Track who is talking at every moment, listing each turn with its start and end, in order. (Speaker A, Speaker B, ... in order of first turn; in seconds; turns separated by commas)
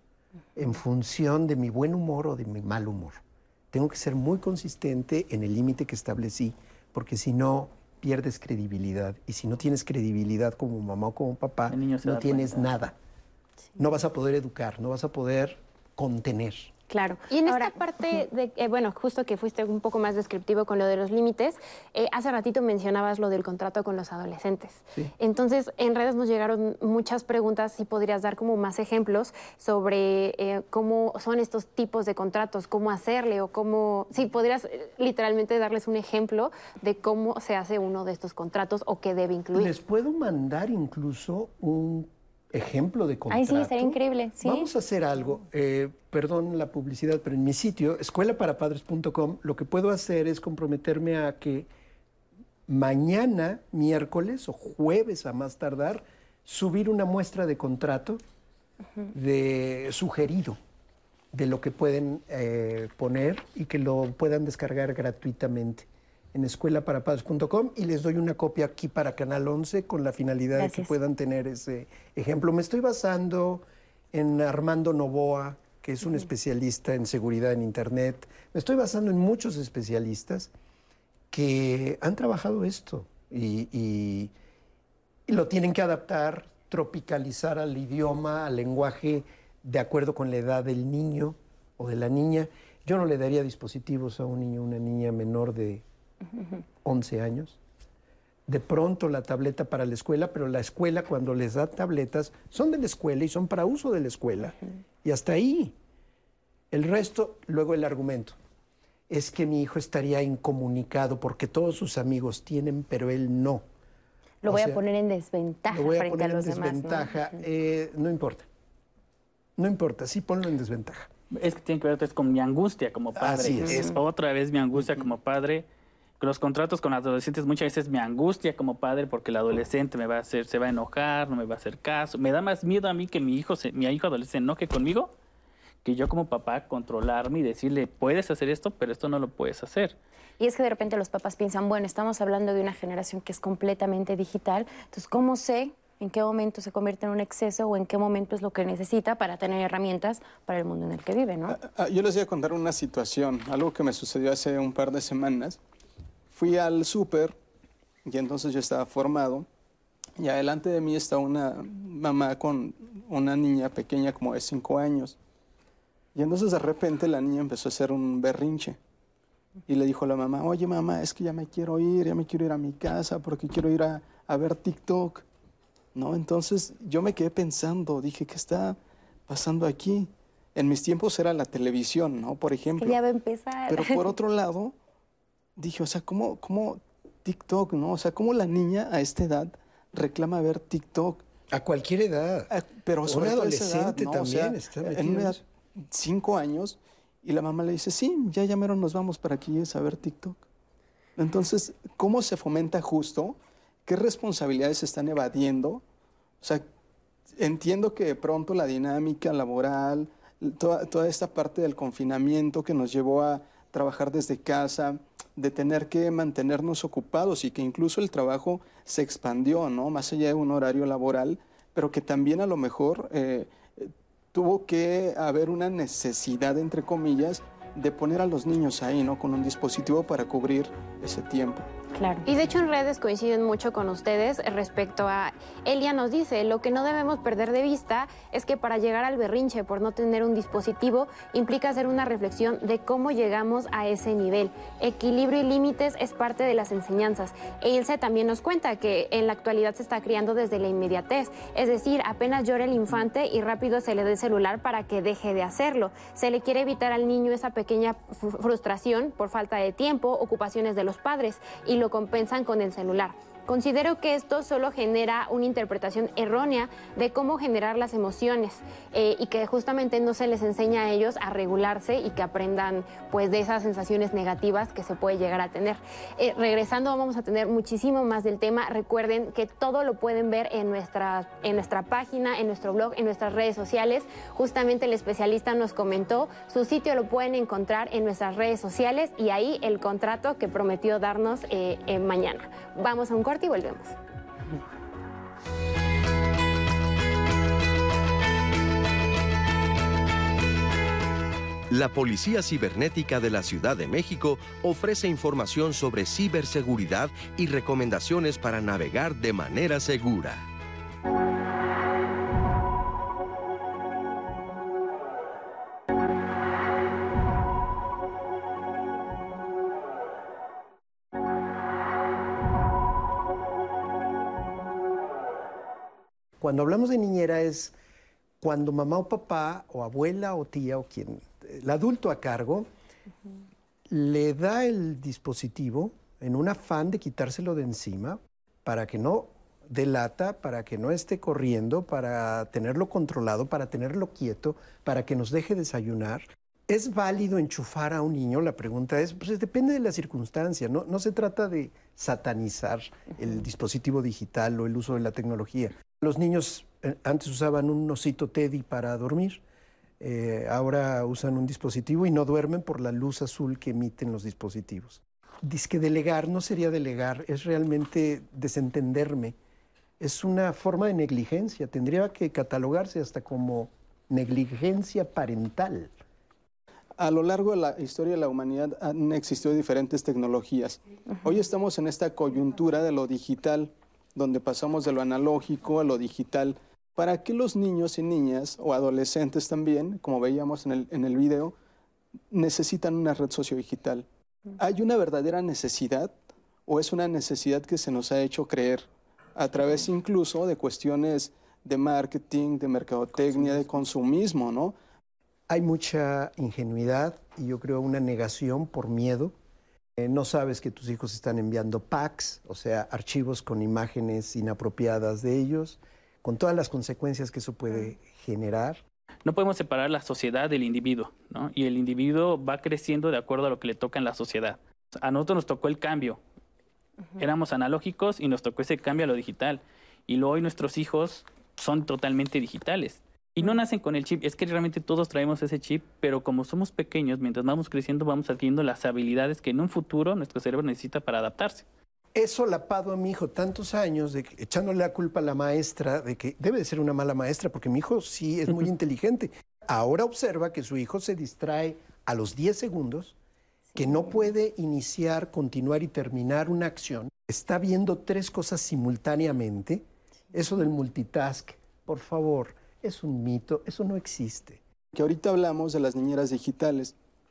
Speaker A: 0.6-12.9, Speaker B: 11.7-12.7, Speaker A: 13.8-16.7, Speaker C: 16.9-18.2, Speaker D: 17.3-39.7, Speaker A: 39.5-51.7, Speaker C: 43.3-44.7, Speaker A: 52.7-58.2, Speaker A: 59.1-60.6, Speaker A: 61.3-80.5, Speaker C: 70.5-70.9, Speaker A: 81.3-84.3, Speaker A: 85.3-95.8, Speaker A: 96.8-97.6, Speaker A: 98.5-105.8, Speaker A: 106.7-108.4, Speaker A: 109.1-113.6, Speaker C: 114.4-117.2, Speaker A: 114.4-114.8, Speaker A: 115.7-118.5, Speaker A: 119.6-121.1, Speaker B: 121.3-125.7, Speaker A: 123.2-123.9, Speaker C: 123.5-123.9, Speaker B: 126.2-135.1, Speaker B: 135.8-139.9, Speaker C: 140.4-151.6, Speaker E: 151.5-155.6, Speaker E: 156.3-157.3, Speaker E: 158.0-159.4, Speaker E: 160.2-165.2, Speaker E: 166.1-168.8, Speaker E: 169.7-175.2, Speaker E: 175.9-178.8, Speaker E: 179.3-183.0, Speaker C: 182.8-184.2, Speaker E: 183.7-184.7, Speaker E: 185.6-191.2, Speaker A: 191.5-192.5, Speaker E: 192.5-200.4, Speaker A: 193.0-195.4, Speaker E: 201.2-205.8, Speaker E: 207.4-231.7, Speaker C: 231.9-232.2, Speaker D: 232.2-293.9, Speaker F: 301.7-310.4, Speaker A: 326.4-327.7, Speaker A: 328.4-332.7, Speaker A: 333.9-359.4, Speaker A: 360.0-369.4, Speaker A: 370.0-375.9, Speaker E: 377.0-391.5, Speaker E: 392.3-394.1, Speaker E: 394.6-396.1, Speaker E: 396.7-404.7, Speaker A: 405.5-409.3, Speaker A: 410.0-418.8, Speaker B: 419.2-426.2, Speaker B: 427.2-441.6, Speaker A: 442.1-453.1, Speaker C: 453.7-454.0, Speaker A: 453.8-464.6, Speaker E: 464.9-466.9